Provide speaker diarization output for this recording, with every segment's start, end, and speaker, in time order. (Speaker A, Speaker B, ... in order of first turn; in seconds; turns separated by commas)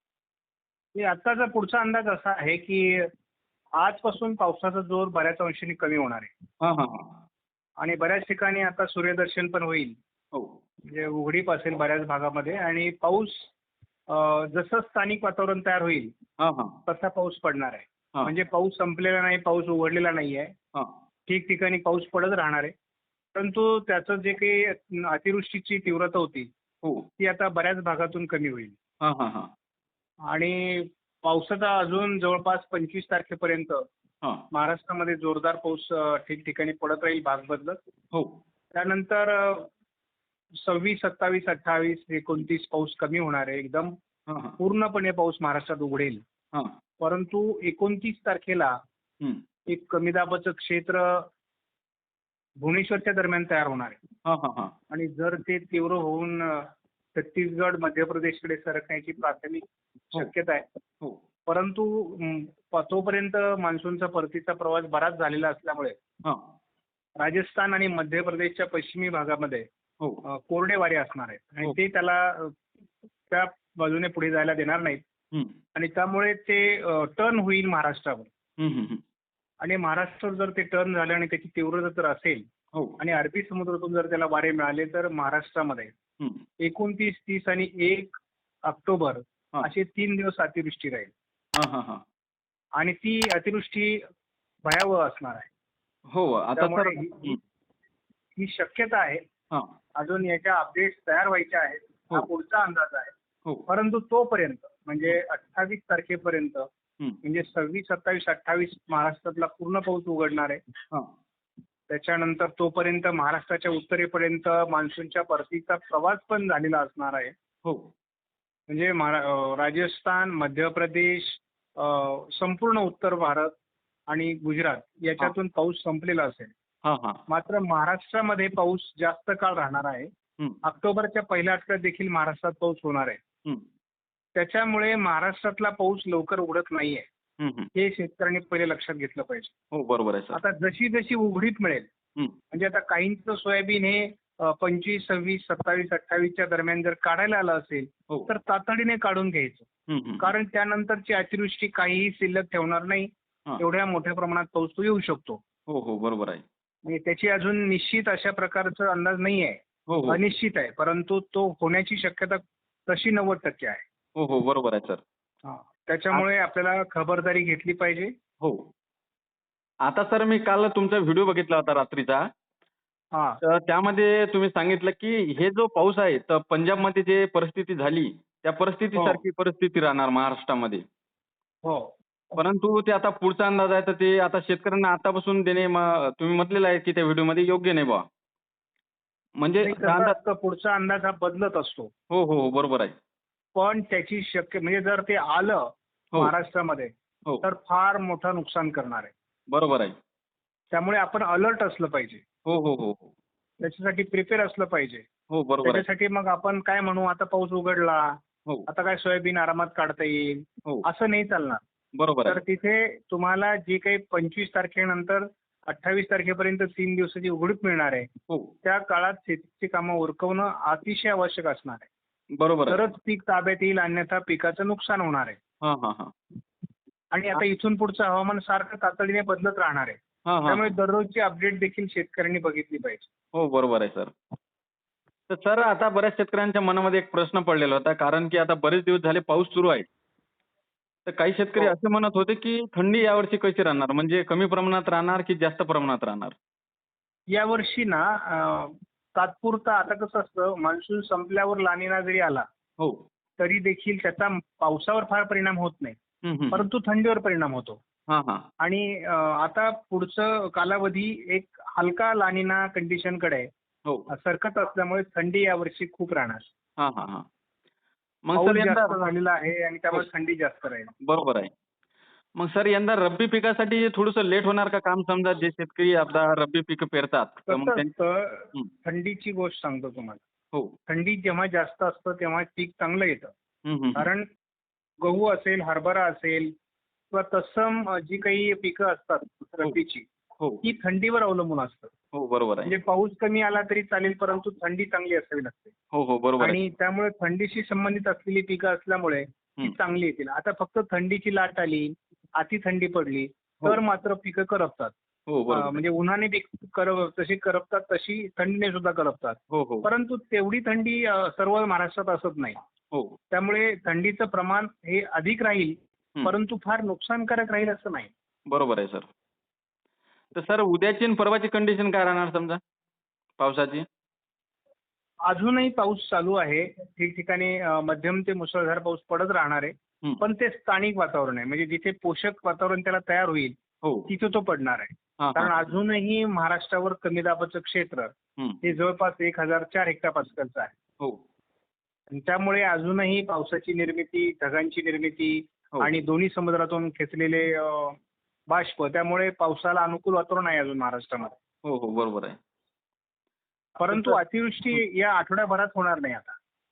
Speaker A: 0.9-3.1, Speaker A: 3.8-6.3, Speaker B: 6.6-7.2, Speaker A: 7.8-9.9, Speaker B: 10.3-10.6, Speaker A: 10.9-13.5, Speaker A: 14.1-16.1, Speaker B: 16.4-16.8, Speaker A: 16.9-20.5, Speaker A: 21.3-22.7, Speaker A: 23.3-26.5, Speaker B: 26.8-27.1, Speaker A: 27.2-28.7, Speaker B: 29.0-29.5, Speaker A: 30.3-33.8, Speaker A: 34.5-37.8, Speaker B: 38.1-38.4, Speaker A: 38.7-39.7, Speaker A: 40.6-43.9, Speaker B: 44.3-44.6, Speaker A: 44.6-46.2, Speaker A: 47.0-48.7, Speaker A: 49.7-51.3, Speaker A: 52.6-54.0, Speaker B: 54.2-54.7, Speaker A: 54.9-60.6, Speaker A: 61.5-66.0, Speaker B: 66.2-66.5, Speaker A: 67.2-69.7, Speaker A: 70.2-72.6, Speaker A: 73.3-75.0, Speaker A: 75.7-78.3, Speaker B: 78.6-79.0, Speaker A: 79.6-82.4, Speaker A: 83.0-85.9, Speaker B: 86.2-86.4, Speaker A: 86.6-91.1, Speaker B: 91.5-92.0, Speaker A: 92.8-94.0, Speaker A: 94.6-95.5, Speaker B: 96.1-97.4, Speaker A: 96.5-97.4, Speaker A: 98.4-99.2, Speaker A: 100.0-103.1, Speaker A: 103.7-106.7, Speaker A: 107.2-110.6, Speaker A: 111.9-117.3, Speaker B: 117.6-117.9, Speaker A: 118.7-123.5, Speaker A: 124.1-126.5, Speaker B: 126.8-127.2, Speaker A: 127.3-130.1, Speaker A: 130.6-133.2, Speaker A: 134.3-137.0, Speaker B: 137.4-137.7, Speaker A: 137.7-139.5, Speaker B: 139.7-140.4, Speaker A: 140.3-141.9, Speaker A: 142.5-149.7, Speaker B: 149.9-150.3, Speaker A: 150.2-155.4, Speaker B: 155.7-156.4, Speaker A: 156.8-163.8, Speaker B: 159.9-160.2, Speaker B: 164.2-165.0, Speaker A: 165.4-168.1, Speaker B: 168.4-168.7, Speaker B: 169.8-172.2, Speaker A: 173.1-173.4, Speaker B: 173.4-180.8, Speaker A: 178.9-179.2, Speaker A: 181.6-181.9, Speaker B: 182.3-188.0, Speaker B: 189.4-190.1, Speaker A: 189.6-191.9, Speaker B: 192.1-192.9, Speaker A: 193.6-199.1, Speaker B: 199.5-199.9, Speaker A: 200.7-202.2, Speaker B: 202.4-203.1, Speaker A: 203.6-205.1, Speaker B: 205.3-205.8, Speaker A: 205.6-211.6, Speaker B: 211.9-212.4, Speaker A: 212.2-218.1, Speaker A: 218.6-221.9, Speaker B: 222.4-222.9, Speaker A: 222.7-225.4, Speaker B: 225.6-226.1, Speaker A: 227.1-233.1, Speaker B: 230.3-230.7, Speaker B: 233.3-234.1, Speaker B: 235.3-239.8, Speaker B: 241.1-246.4, Speaker A: 247.3-252.4, Speaker B: 252.8-253.0, Speaker A: 253.4-256.0, Speaker B: 256.2-256.7, Speaker A: 256.5-257.8, Speaker B: 258.1-258.4, Speaker A: 258.6-263.5, Speaker A: 264.1-266.4, Speaker B: 266.8-267.2, Speaker B: 268.2-268.9, Speaker A: 268.3-270.9, Speaker B: 271.0-271.5, Speaker B: 272.4-277.9, Speaker A: 277.5-280.2, Speaker A: 280.9-283.3, Speaker B: 283.6-284.1, Speaker A: 283.9-284.2, Speaker A: 285.0-286.5, Speaker A: 287.1-290.1, Speaker A: 290.6-291.9, Speaker B: 292.1-292.7, Speaker A: 292.6-295.7, Speaker B: 295.9-296.6, Speaker A: 296.4-304.9, Speaker B: 305.3-305.8, Speaker A: 305.5-312.6, Speaker B: 309.5-309.9, Speaker B: 312.9-313.2, Speaker A: 313.3-318.1, Speaker B: 318.5-319.1, Speaker B: 320.3-322.6, Speaker B: 323.4-323.8, Speaker A: 325.3-333.6, Speaker B: 333.8-334.1, Speaker A: 334.1-340.7, Speaker B: 335.2-335.7, Speaker B: 338.4-338.6, Speaker A: 342.1-348.0, Speaker A: 348.5-351.4, Speaker B: 351.6-352.4, Speaker A: 353.8-356.4, Speaker B: 353.9-354.2